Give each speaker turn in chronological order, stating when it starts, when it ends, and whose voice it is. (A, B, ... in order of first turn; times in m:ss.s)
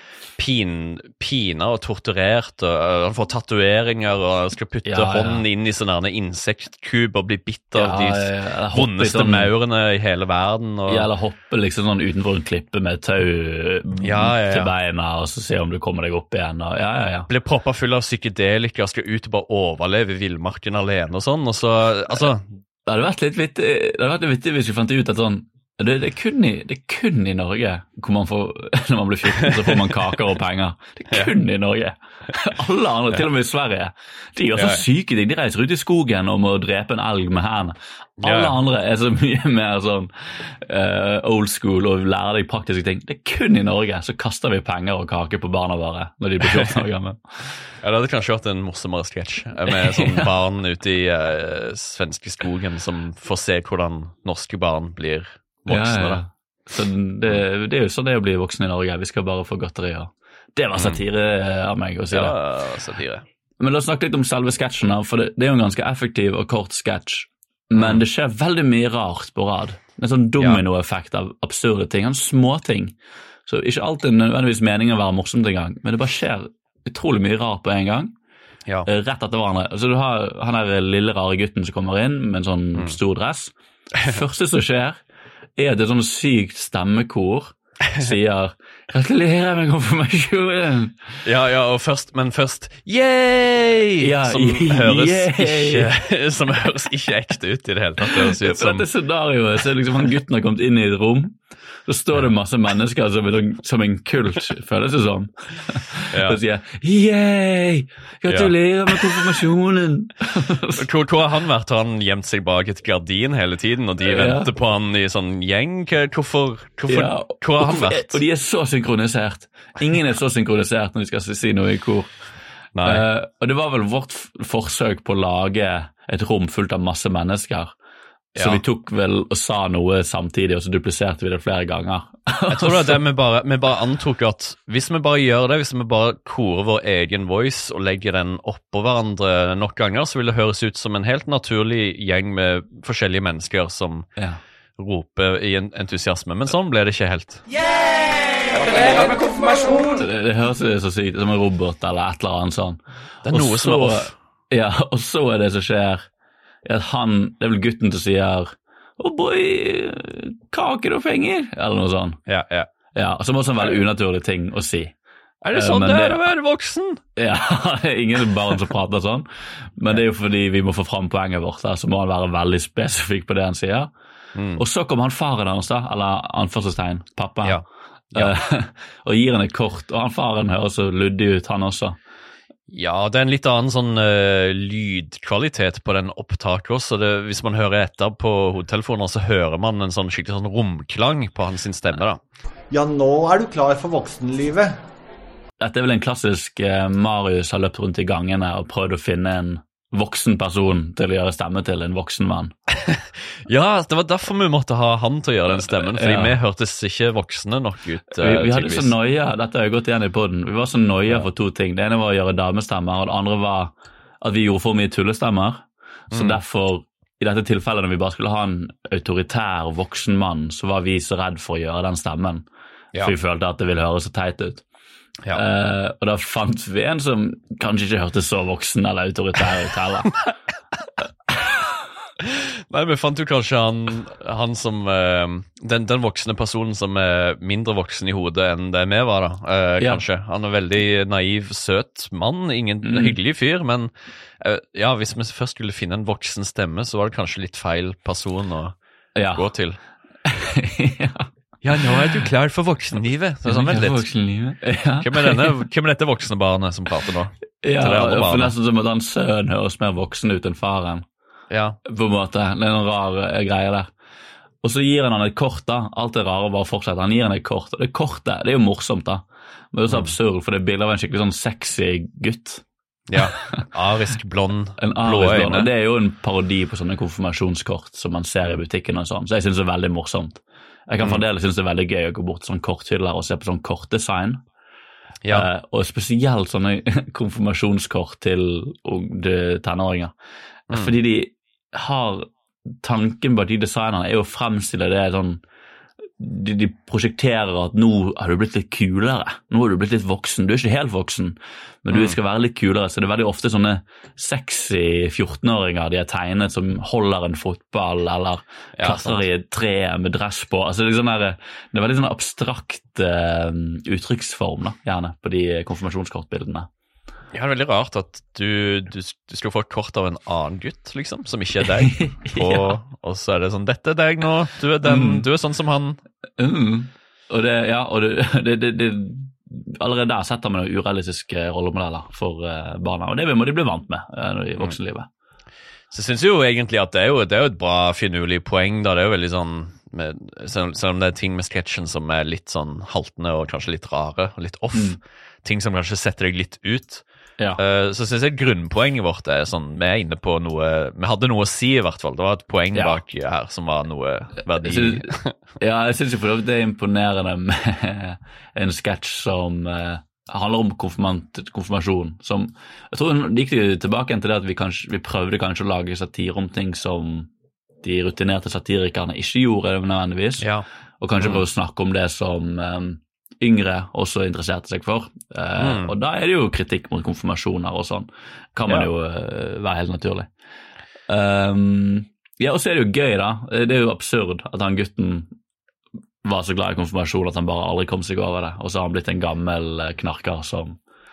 0:00.4-0:11.1 A
0:04.8-0:05.4 B
0:07.8-0:09.5 B
0:10.9-0:17.3 B
0:14.0-0:14.7 A
0:17.3-0:22.5 A
0:22.9-0:47.5 B
0:29.4-0:29.9 A
0:34.6-0:34.8 A
0:38.2-0:38.6 A
0:47.8-0:56.2 A
0:49.7-0:50.3 B
0:55.7-1:02.4 B
1:00.8-1:01.0 A
1:02.1-1:03.2 A
1:03.6-1:13.0 B
1:13.5-1:18.1 B
1:18.9-1:25.0 B
1:25.6-1:31.2 B
1:31.2-1:38.9 A
1:34.0-1:35.9 B
1:38.0-1:50.9 B
1:46.1-1:46.4 A
1:48.3-1:49.2 A
1:50.8-1:58.2 A
1:54.0-1:54.5 B
1:56.9-2:02.1 B
2:02.8-2:03.0 A
2:02.8-2:07.8 B
2:08.4-2:08.6 A
2:08.4-2:13.0 B
2:12.5-2:24.1 A
2:24.8-2:27.4 A
2:29.7-2:36.1 B
2:33.2-2:34.1 A
2:36.6-2:42.2 B
2:42.3-2:42.7 A
2:43.0-2:44.9 B
2:45.4-2:47.0 A
2:45.5-2:46.2 B
2:47.2-2:53.9 B
2:54.4-2:54.6 A
2:54.6-2:57.6 B
2:57.4-2:58.3 A
2:58.1-3:02.0 B
3:02.7-3:12.2 A
3:12.7-3:14.8 C
3:15.6-3:22.5 B
3:22.9-3:28.9 A
3:25.8-3:26.4 B
3:28.1-3:42.5 B
3:36.1-3:36.4 A
3:43.0-3:44.6 B
3:45.3-3:50.3 B
3:52.2-4:08.8 A
4:02.8-4:03.2 B
4:09.2-4:09.5 B
4:09.4-4:09.8 A
4:10.2-4:11.3 B
4:11.6-4:14.1 A
4:11.8-4:12.1 B
4:13.5-4:15.6 B
4:15.0-4:18.5 A
4:17.6-4:21.0 B
4:21.5-4:21.8 A
4:21.8-4:23.9 B
4:24.6-4:32.6 B
4:29.9-4:30.1 A
4:33.1-4:35.7 A
4:33.2-4:33.6 B
4:34.8-4:44.4 B
4:45.3-4:50.1 B
4:50.7-4:52.3 B
4:52.8-4:55.4 B
4:56.2-5:16.7 B
5:08.8-5:09.2 A
5:17.3-5:26.0 A
5:21.8-5:22.8 B
5:24.8-5:25.2 B
5:26.4-5:35.1 B
5:35.9-5:47.0 A
5:47.6-5:55.3 A
5:52.7-5:53.0 B
5:54.6-6:07.3 B
6:07.8-6:10.5 B
6:11.0-6:20.3 B
6:15.6-6:15.9 A
6:21.1-6:25.3 B
6:26.2-6:30.8 B